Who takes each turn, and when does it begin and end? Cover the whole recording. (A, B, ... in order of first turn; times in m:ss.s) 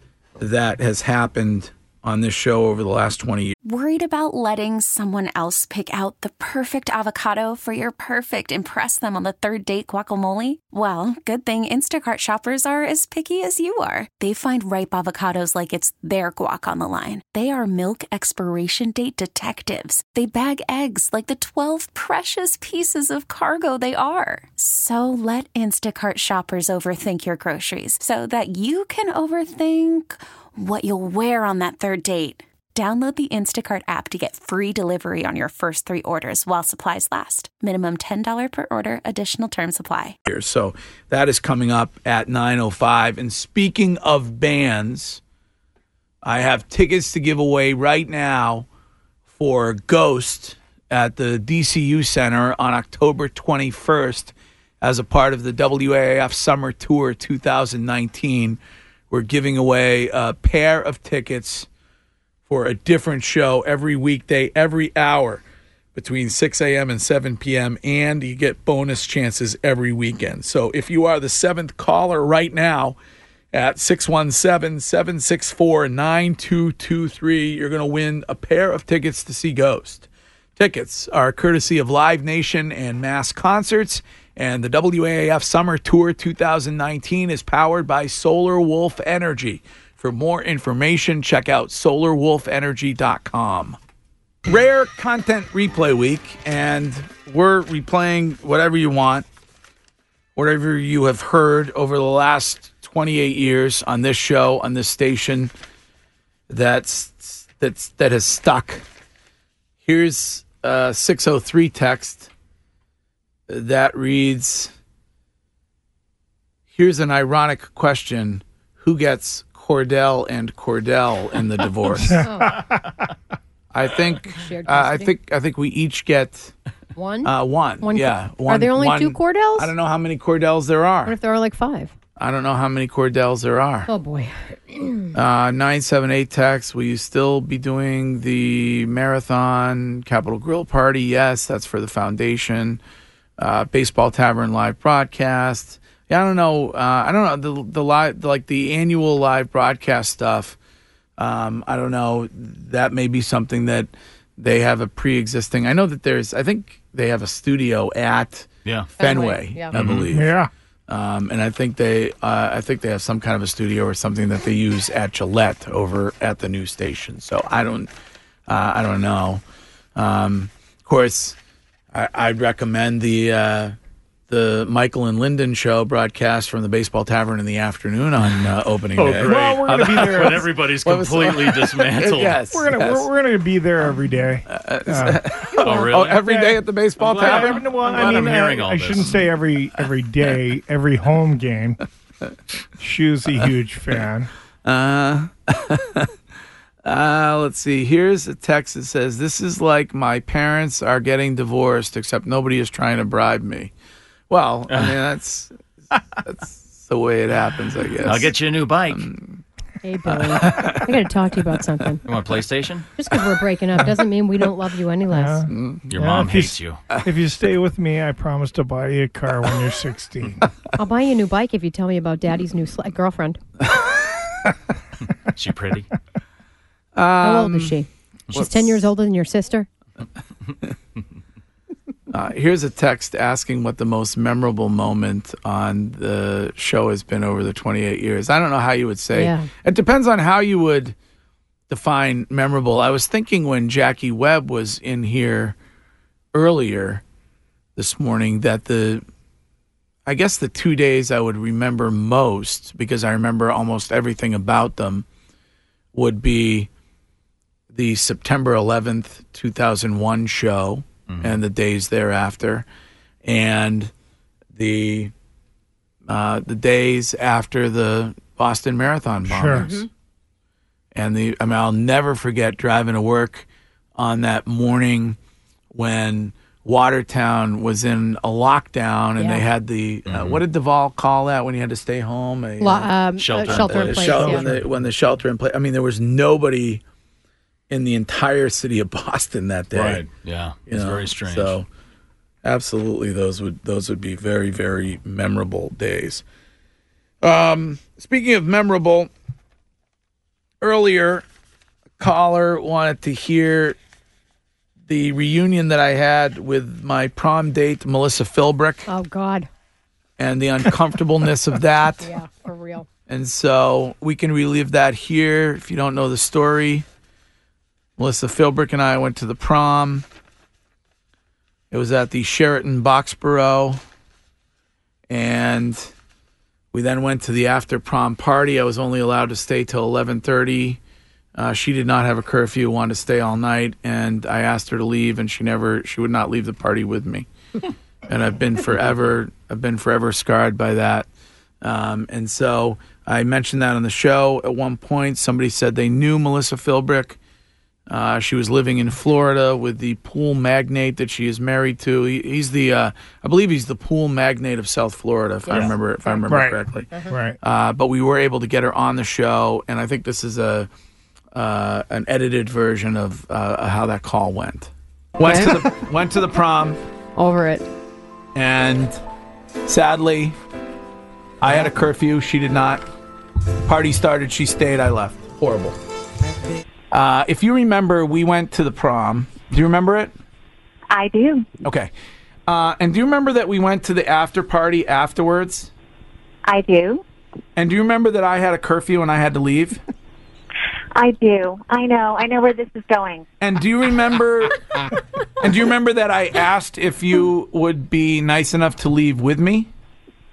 0:00.4-0:03.5 A
0:03.6-0:40.2 B
0:40.2-0:45.2 A
0:46.2-0:48.6 A
0:49.3-0:58.6 A
0:59.1-1:01.7 A
1:02.5-1:05.4 A
1:05.9-1:13.0 A
1:13.5-1:33.8 A
1:34.4-1:39.3 A
1:40.4-1:45.5 A
1:46.5-1:48.8 A
1:49.8-1:52.3 A
1:53.5-1:54.7 A
1:56.7-2:02.2 A
2:02.0-2:02.7 C
2:02.2-2:02.6 D
2:03.7-2:06.5 A
2:04.2-2:05.1 D
2:07.0-2:09.7 D
2:07.2-2:11.2 A
2:11.0-2:11.9 D
2:12.2-2:13.9 A
2:13.9-2:15.1 D
2:15.1-2:22.8 A
2:23.4-2:30.6 A
2:31.2-2:40.4 A
2:39.0-2:39.7 D
2:39.7-2:40.1 E
2:40.1-2:40.5 C
2:40.9-2:47.9 A
2:48.5-2:49.4 A
2:49.9-2:51.4 A
2:51.9-2:53.8 A
2:54.3-3:03.1 A
2:59.0-3:02.4 E
2:59.1-3:00.4 C
3:02.5-3:06.6 C
3:04.5-3:08.4 A
3:05.6-3:06.3 E
3:07.0-3:09.2 E
3:07.1-3:11.8 C
3:12.8-3:14.3 C
3:14.6-3:16.1 A
3:16.8-3:23.7 A
3:24.3-3:25.6 A
3:24.7-3:24.9 E
3:26.2-3:28.3 A
3:28.0-3:29.1 E
3:28.9-3:29.4 A
3:29.8-3:32.0 D
3:30.1-3:31.0 A
3:32.0-3:32.9 E
3:33.0-3:35.5 D
3:35.1-3:40.4 C
3:35.5-3:35.9 A
3:35.9-3:36.8 E
3:40.8-3:43.4 D
3:45.3-3:45.9 E
3:46.9-3:47.8 A
3:47.2-3:49.7 D
3:48.3-3:48.8 A
3:52.1-4:01.0 A
3:59.1-3:59.5 D
4:01.7-4:05.6 A
4:06.3-4:07.0 A
4:07.8-4:09.0 A
4:10.0-4:15.0 A
4:15.9-4:16.7 A
4:17.7-4:22.7 A
4:21.1-4:21.3 E
4:23.2-4:23.9 A
4:24.5-4:25.1 A
4:26.1-4:29.8 A
4:29.2-4:29.7 C
4:29.5-4:29.9 D
4:30.9-4:35.2 A
4:35.7-4:46.8 A
4:39.2-4:39.4 D
4:40.1-4:40.4 E
4:42.6-4:44.5 D
4:43.2-4:44.2 E
4:44.2-4:44.7 C
4:47.7-4:50.0 A
4:49.7-4:51.6 E
4:50.7-4:51.7 A
4:52.4-4:56.2 A
4:57.2-4:59.1 A
5:00.6-5:01.2 A
5:02.0-5:03.8 A
5:04.9-5:08.9 A
5:08.9-5:09.5 D
5:10.2-5:12.1 A
5:12.0-5:12.9 D
5:13.1-5:16.8 A
5:18.0-5:20.0 A
5:21.7-5:23.8 A
5:25.1-5:25.9 A
5:26.7-5:30.8 A
5:31.3-5:37.3 A
5:38.1-5:41.1 A
5:41.6-5:47.2 A
5:47.9-5:56.9 A
5:56.2-5:57.4 C
5:57.4-6:00.7 A
6:01.3-6:06.8 A
6:05.2-6:05.6 D
6:07.2-6:07.6 D
6:08.3-6:09.0 A
6:09.6-6:10.4 A
6:11.4-6:12.8 A
6:13.6-6:15.8 A
6:16.9-6:20.1 A
6:20.9-6:21.5 F
6:21.6-6:21.9 A
6:22.5-6:25.7 A
6:26.4-6:27.0 F
6:27.6-6:29.8 A
6:30.9-6:33.2 F
6:33.4-6:34.6 A
6:35.4-6:39.7 A